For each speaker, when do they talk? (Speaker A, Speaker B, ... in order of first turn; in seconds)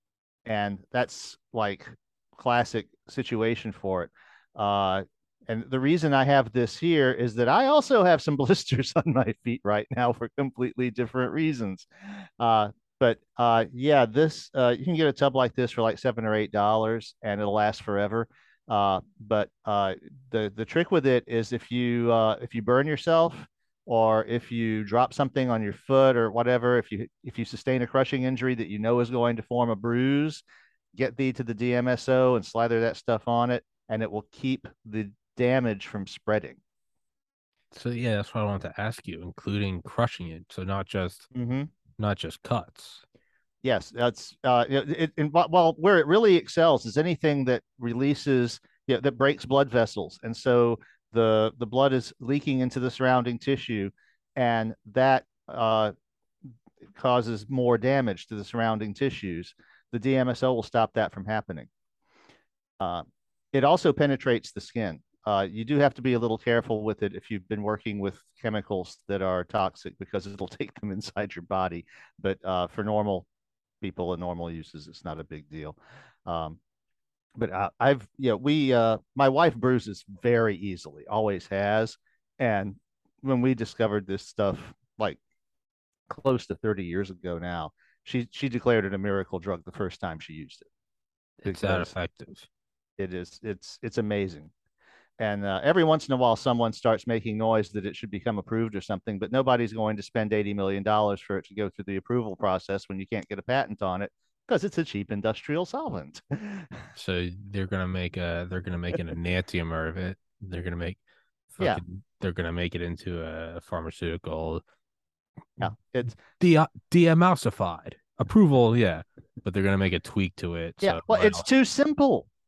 Speaker A: 0.5-11.9, 12.4-30.4, 30.9-36.6, 41.3-41.7, 43.6-55.9, 57.0-61.7, 62.8-73.3, 73.8-76.6, 77.4-85.2, 86.1-90.7, 91.4-91.9, 93.0-94.5, 95.2-106.8, 115.6-116.2, 120.8-122.3
Speaker B: 37.7-41.3, 42.0-43.0, 91.4-92.5, 107.0-114.6, 116.4-121.5